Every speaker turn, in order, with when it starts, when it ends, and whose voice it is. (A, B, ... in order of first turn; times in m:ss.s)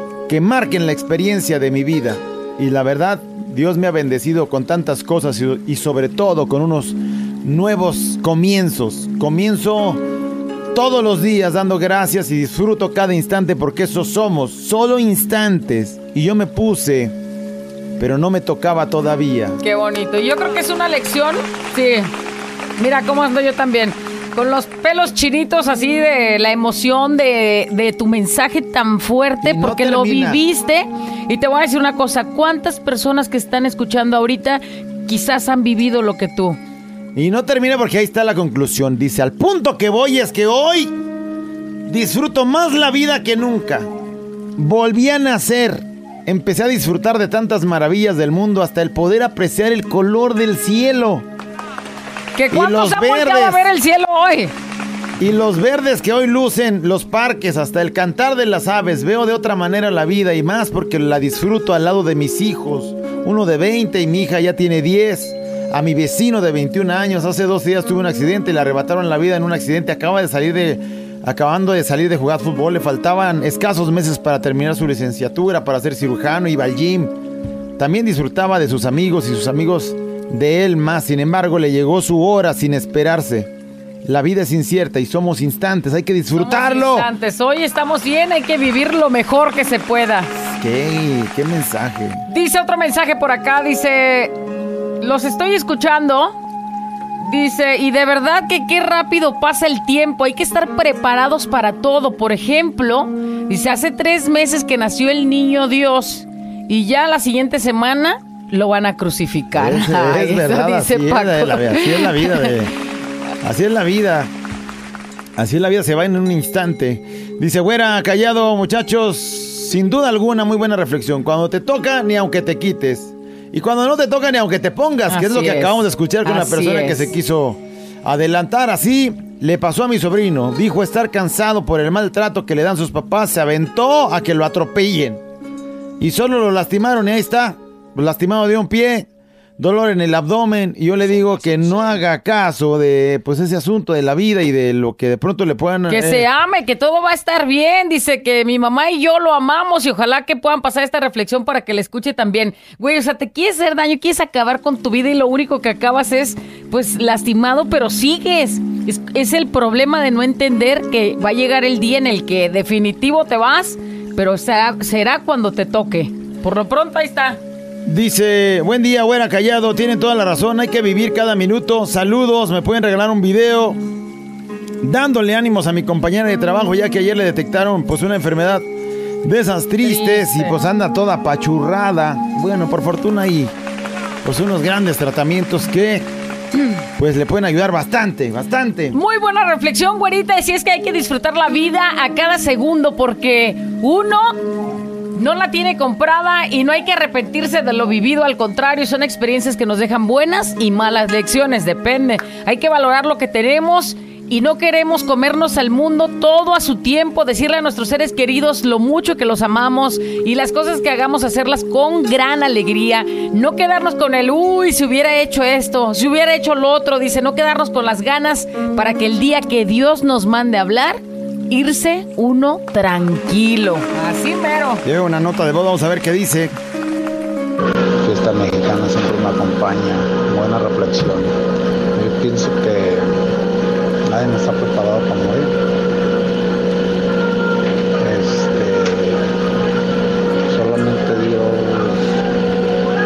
0:00.3-0:10.0 A
0:10.7-0:17.2 A
0:18.0-0:19.6 A
0:19.6-0:22.1 B
0:22.8-0:36.6 B
0:29.4-0:30.4 A
0:37.2-0:41.0 A
0:41.8-0:43.9 A
0:44.6-0:51.3 A
0:52.4-0:54.5 B
0:52.5-0:53.7 A
0:55.2-1:17.1 A
1:17.8-1:23.5 A
1:24.0-1:27.1 A
1:26.4-1:30.3 B
1:30.6-1:32.2 A
1:32.3-1:34.4 B
1:35.0-1:36.4 B
1:37.2-1:52.5 B
1:49.5-1:52.7 A
1:53.4-1:54.3 A
1:55.4-2:15.2 A
2:05.1-2:07.1 B
2:16.0-2:26.3 A
2:21.1-2:21.9 B
2:25.9-2:47.4 B
2:47.8-2:53.8 A
2:54.8-2:58.7 A
2:59.2-3:03.5 A
2:59.8-3:00.6 B
3:04.2-3:06.1 A
3:07.0-3:09.0 A
3:08.9-3:14.4 B
3:15.1-3:44.8 B
3:44.8-3:46.5 A
3:48.0-3:51.3 C
3:52.0-3:53.2 C
3:54.1-3:55.6 C
3:58.0-3:59.4 C
4:00.5-4:02.2 C